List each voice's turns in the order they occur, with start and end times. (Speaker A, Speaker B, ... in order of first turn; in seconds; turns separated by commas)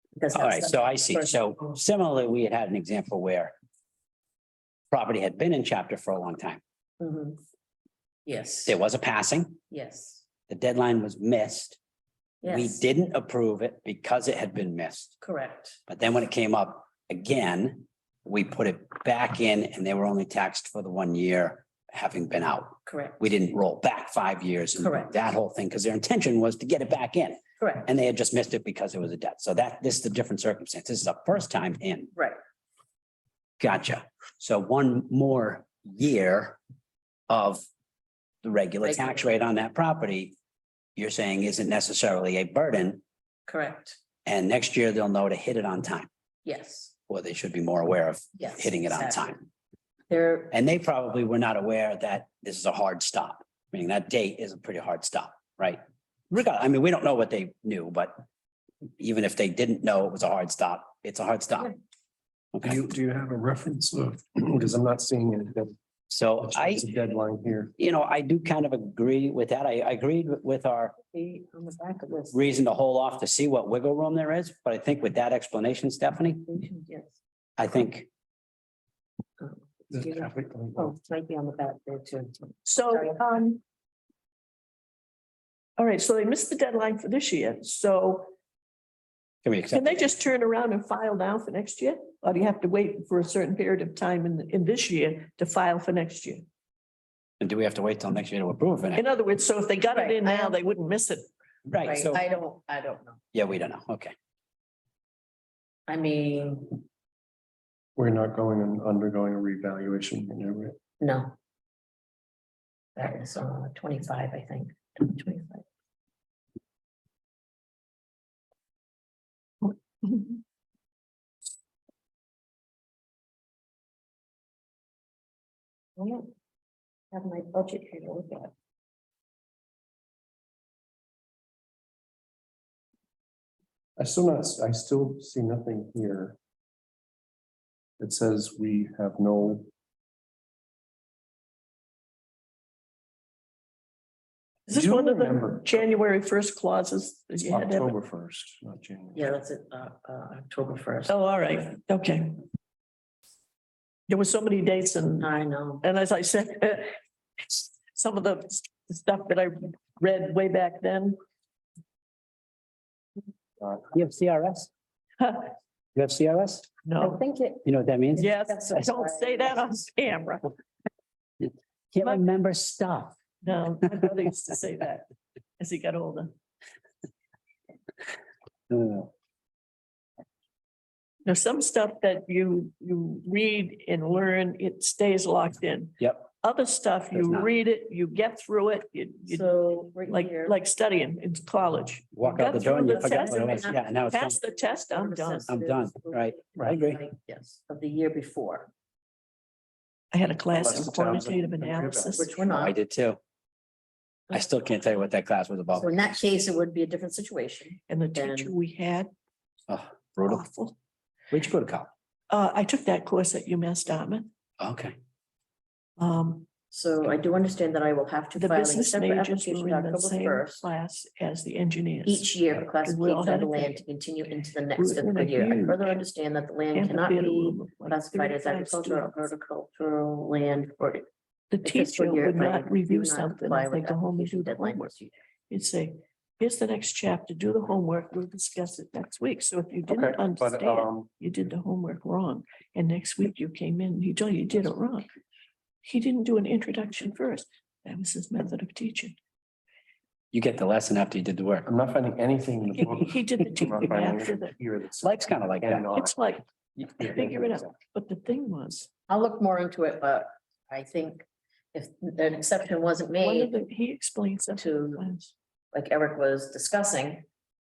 Speaker A: 0.2-1.8, Speaker B: 0.3-3.5, Speaker B: 4.9-6.6, Speaker A: 7.0-7.4, Speaker A: 8.2-8.8, Speaker B: 8.7-9.6, Speaker A: 9.7-10.2, Speaker B: 10.5-11.8, Speaker A: 12.4-12.8, Speaker B: 12.5-15.1, Speaker A: 15.2-15.8, Speaker B: 15.9-32.1, Speaker A: 22.9-23.3, Speaker A: 24.8-25.2, Speaker A: 27.6-27.9, Speaker B: 33.6-36.6, Speaker B: 37.3-37.6, Speaker B: 38.4-40.3, Speaker A: 38.8-39.3, Speaker B: 41.0-43.0, Speaker A: 43.5-44.0, Speaker B: 44.3-46.1, Speaker A: 46.5-46.9, Speaker B: 47.1-49.5, Speaker A: 48.4-49.4, Speaker A: 50.1-50.5, Speaker B: 50.5-55.8, Speaker B: 56.3-58.2, Speaker B: 59.0-61.7, Speaker B: 62.5-62.9, Speaker C: 62.6-65.7, Speaker B: 66.1-66.8, Speaker C: 66.4-67.7, Speaker B: 67.8-71.0, Speaker A: 71.0-72.4, Speaker B: 72.3-76.5, Speaker A: 76.5-77.2, Speaker B: 77.6-78.1, Speaker A: 79.4-83.2, Speaker C: 79.9-80.9, Speaker D: 82.7-83.6, Speaker D: 85.8-88.3, Speaker B: 89.4-90.0, Speaker D: 89.7-96.5, Speaker B: 97.4-99.0, Speaker D: 99.0-101.3, Speaker A: 99.9-100.6, Speaker B: 101.7-102.2, Speaker A: 101.8-103.2, Speaker B: 103.3-104.1, Speaker A: 105.9-106.8, Speaker C: 108.0-110.8, Speaker A: 111.0-111.3, Speaker A: 113.0-115.7, Speaker D: 120.0-120.3, Speaker A: 126.0-126.3, Speaker A: 127.1-128.5, Speaker C: 134.0-136.4, Speaker C: 138.0-139.7, Speaker C: 144.7-145.9, Speaker D: 144.7-147.9, Speaker C: 147.5-149.3, Speaker A: 149.2-151.2, Speaker D: 151.1-152.4, Speaker D: 154.1-155.3, Speaker A: 155.2-155.9, Speaker D: 155.8-161.2, Speaker B: 163.9-164.7, Speaker D: 165.2-165.5, Speaker B: 166.0-166.7, Speaker D: 166.8-167.2, Speaker A: 167.0-169.7, Speaker B: 167.7-168.3, Speaker D: 168.2-170.6, Speaker B: 171.4-173.2, Speaker D: 173.4-175.1, Speaker D: 175.6-176.3, Speaker B: 178.7-179.1, Speaker D: 181.2-195.5, Speaker B: 186.0-186.3, Speaker B: 187.1-187.5, Speaker A: 189.3-190.6, Speaker B: 192.2-194.4, Speaker A: 192.8-198.7, Speaker B: 195.5-197.0, Speaker D: 200.1-202.4, Speaker C: 200.5-202.3, Speaker A: 202.2-202.8, Speaker B: 202.5-203.2, Speaker B: 204.3-206.0, Speaker A: 205.8-208.5, Speaker D: 207.9-209.1, Speaker B: 209.7-210.4, Speaker D: 210.2-210.8, Speaker B: 211.3-211.9, Speaker D: 212.3-214.3, Speaker B: 214.6-215.0, Speaker D: 216.0-216.5, Speaker A: 216.7-220.6, Speaker D: 218.3-223.8, Speaker A: 222.1-231.1, Speaker D: 224.8-225.9, Speaker D: 226.7-229.2, Speaker D: 231.5-234.9, Speaker A: 231.6-235.1, Speaker D: 235.5-245.1, Speaker C: 239.9-241.1, Speaker D: 245.8-249.2, Speaker B: 250.3-251.7, Speaker C: 251.7-256.1, Speaker D: 252.8-254.5, Speaker B: 255.0-255.9, Speaker D: 255.9-258.9, Speaker C: 257.0-257.6, Speaker A: 259.1-263.5, Speaker D: 263.2-265.3, Speaker A: 264.6-265.1, Speaker A: 265.7-267.3